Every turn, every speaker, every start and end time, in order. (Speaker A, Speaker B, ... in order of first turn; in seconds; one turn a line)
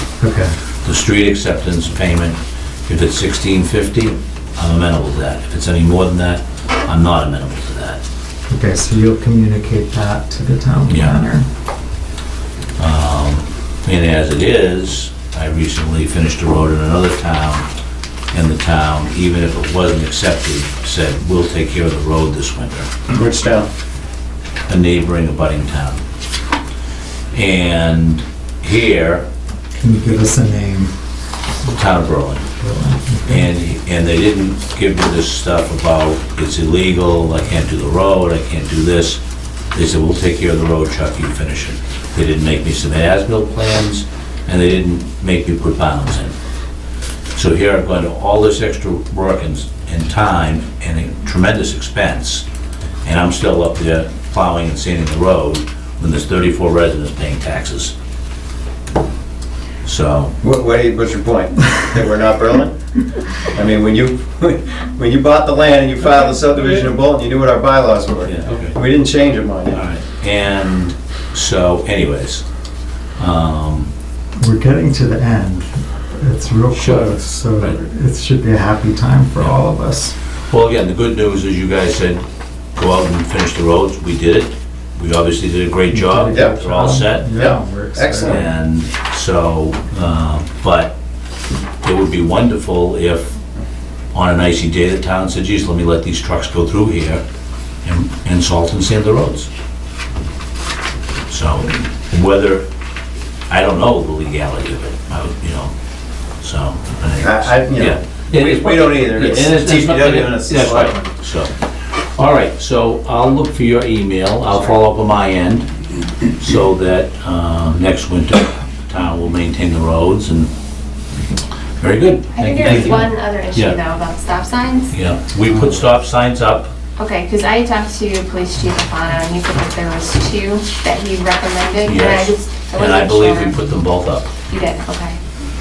Speaker A: 0.2-0.5
Speaker B: 0.8-8.0
Speaker A: 8.5-11.4
Speaker B: 12.8-17.7
Speaker B: 18.3-22.9
Speaker C: 23.1-23.7
Speaker B: 24.7-26.0
Speaker B: 27.3-29.2
Speaker A: 29.8-30.9
Speaker B: 31.6-32.5
Speaker A: 32.6-33.5
Speaker B: 33.2-39.2
Speaker B: 39.7-46.3
Speaker B: 47.3-52.5
Speaker B: 53.0-57.9
Speaker B: 59.8-60.3
Speaker C: 60.4-62.8
Speaker C: 63.4-69.8
Speaker B: 68.2-68.8
Speaker B: 69.7-72.5
Speaker B: 73.2-73.9
Speaker A: 74.3-80.2
Speaker B: 76.7-77.8
Speaker B: 80.5-82.2
Speaker B: 82.8-87.3
Speaker A: 85.9-88.5
Speaker C: 86.3-86.6
Speaker C: 87.3-88.5
Speaker B: 88.2-90.9
Speaker B: 91.8-93.3
Speaker B: 94.1-97.2
Speaker B: 97.8-99.5
Speaker B: 101.3-102.7
Speaker B: 103.5-105.7
Speaker B: 106.4-115.7
Speaker C: 107.2-111.0
Speaker B: 116.4-120.5
Speaker B: 121.8-123.8
Speaker D: 122.3-125.0
Speaker B: 124.9-126.7
Speaker A: 125.5-125.8
Speaker D: 127.0-133.7
Speaker B: 131.9-134.3
Speaker D: 134.5-135.2